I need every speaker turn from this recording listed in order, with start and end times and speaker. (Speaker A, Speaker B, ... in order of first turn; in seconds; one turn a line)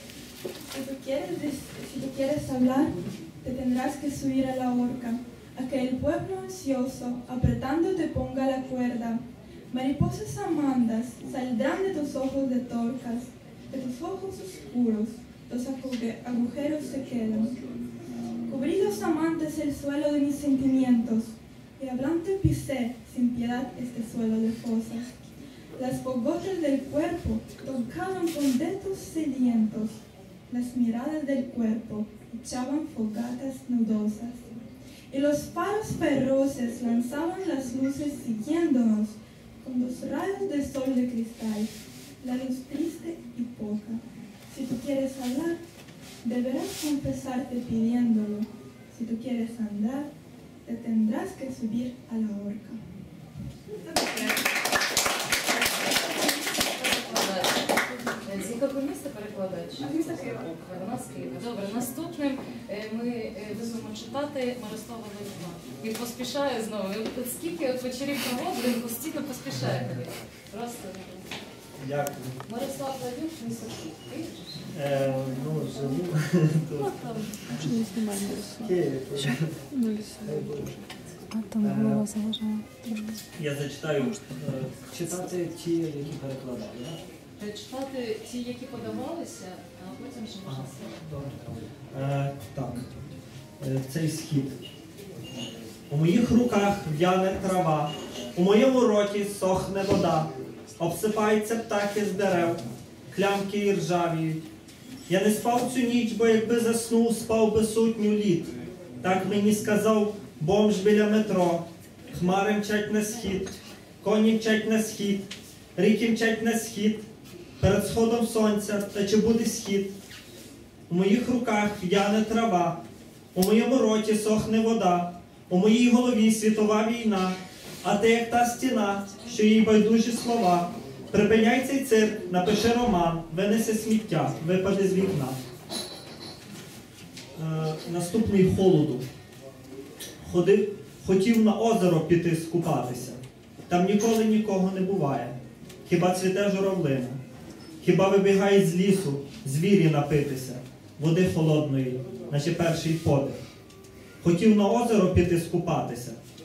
Speaker A: 0.7-17.6
Speaker A: 18.5-25.2
Speaker A: 25.8-34.4
Speaker A: 35.1-45.6
Speaker A: 46.2-50.1
Speaker A: 50.6-52.8
Speaker B: 53.8-54.5
Speaker B: 55.8-71.4
Speaker C: 71.8-72.4
Speaker B: 72.5-74.7
Speaker C: 74.7-77.5
Speaker B: 76.8-78.0
Speaker D: 77.5-78.8
Speaker C: 78.6-79.6
Speaker D: 79.7-80.9
Speaker C: 80.2-80.8
Speaker B: 81.3-83.0
Speaker C: 81.6-82.1
Speaker D: 82.3-83.2
Speaker C: 83.3-87.0
Speaker B: 87.4-91.0
Speaker C: 90.5-92.9
Speaker C: 93.6-94.6
Speaker C: 95.9-104.4
Speaker C: 105.1-115.2
Speaker C: 115.8-117.0
Speaker C: 117.6-119.9
Speaker C: 120.9-122.8
Speaker C: 123.3-135.4
Speaker C: 137.4-139.0
Speaker C: 140.2-145.3
Speaker C: 145.9-147.2
Speaker C: 147.8-153.4
Speaker C: 154.2-156.2